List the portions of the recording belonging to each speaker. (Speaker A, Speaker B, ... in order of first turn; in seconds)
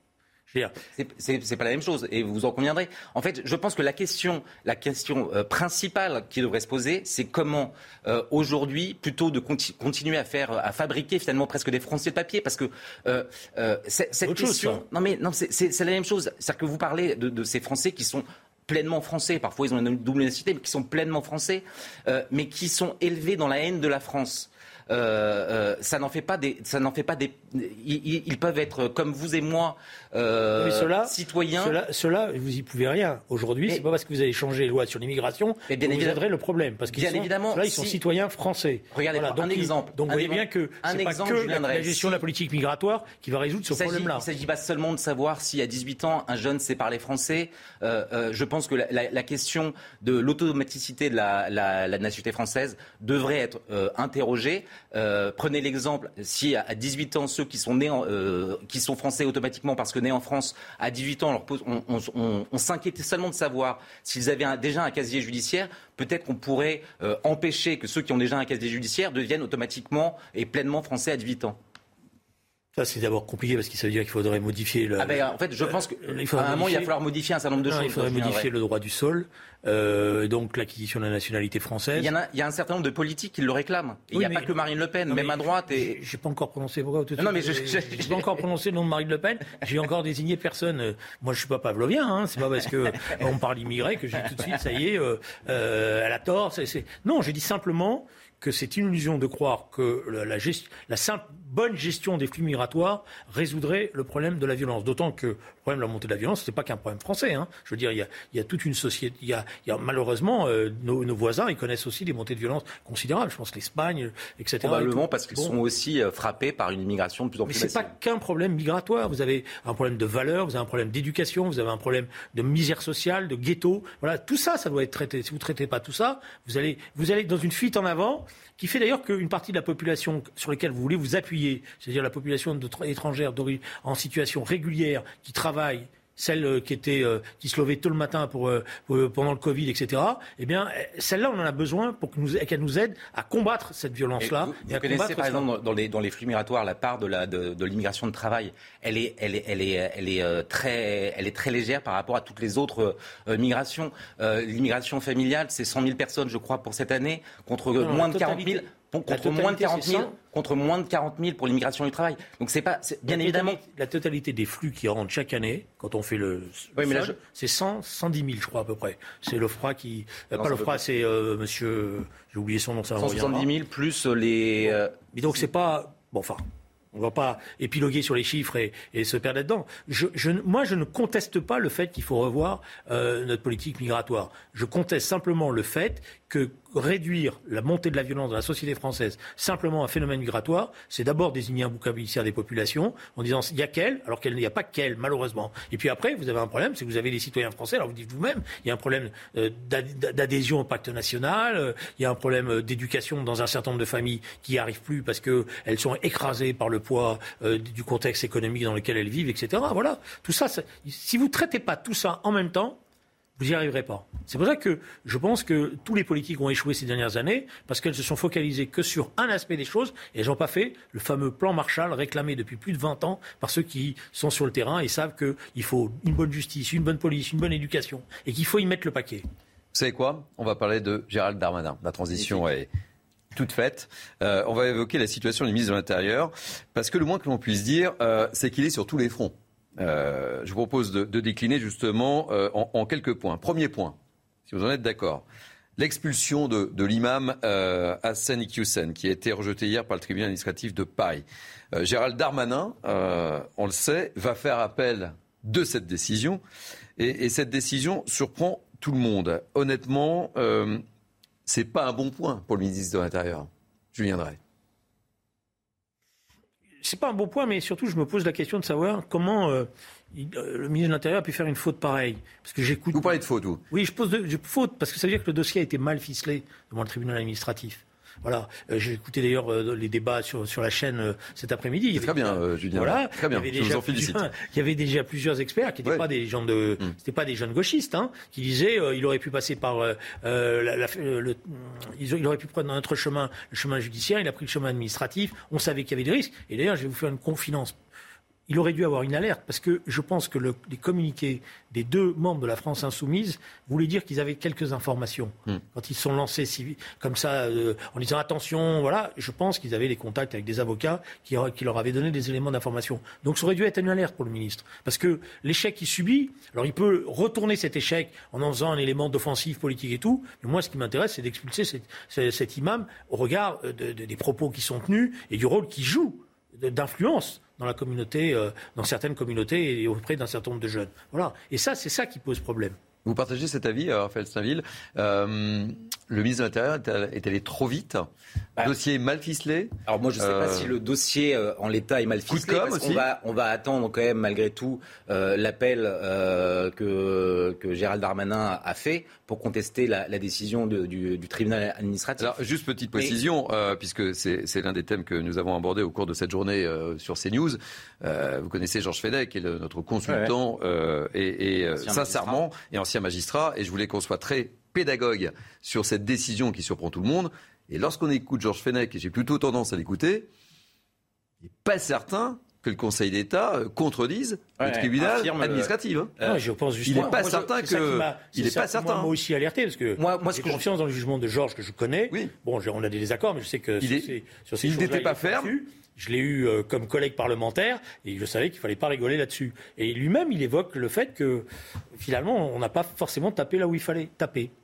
Speaker A: 0.5-0.8, 14.2-14.8, 30.6-44.2, 72.7-75.2, 75.7-76.9, 77.6-82.1, 84.1-84.5, 85.1-115.5, 117.5-145.4, 157.8-160.1, 163.1-173.5, 175.1-176.4, 176.9-212.8, 213.4-229.2, 266.8-273.2, 273.7-297.7, 298.5-332.8, 376.2-394.5
Speaker B: 0.9-31.8, 35.7-36.2, 36.9-38.0, 38.9-42.2, 43.7-71.6, 75.0-78.5, 81.9-86.0, 87.2-88.4, 114.6-117.9, 144.2-163.6, 166.8-167.2, 170.4-170.8, 173.0-174.9, 339.9-352.4, 360.1-360.3, 361.8-362.4, 374.6-377.5, 380.0-380.6
Speaker C: 229.7-232.7, 233.3-245.2, 245.8-256.4, 257.0-260.8, 261.4-264.4, 272.9-273.6, 281.9-284.3, 333.0-338.1, 338.6-340.7, 342.3-343.1, 352.2-370.3, 371.4-376.1, 376.8-379.1, 383.8-385.5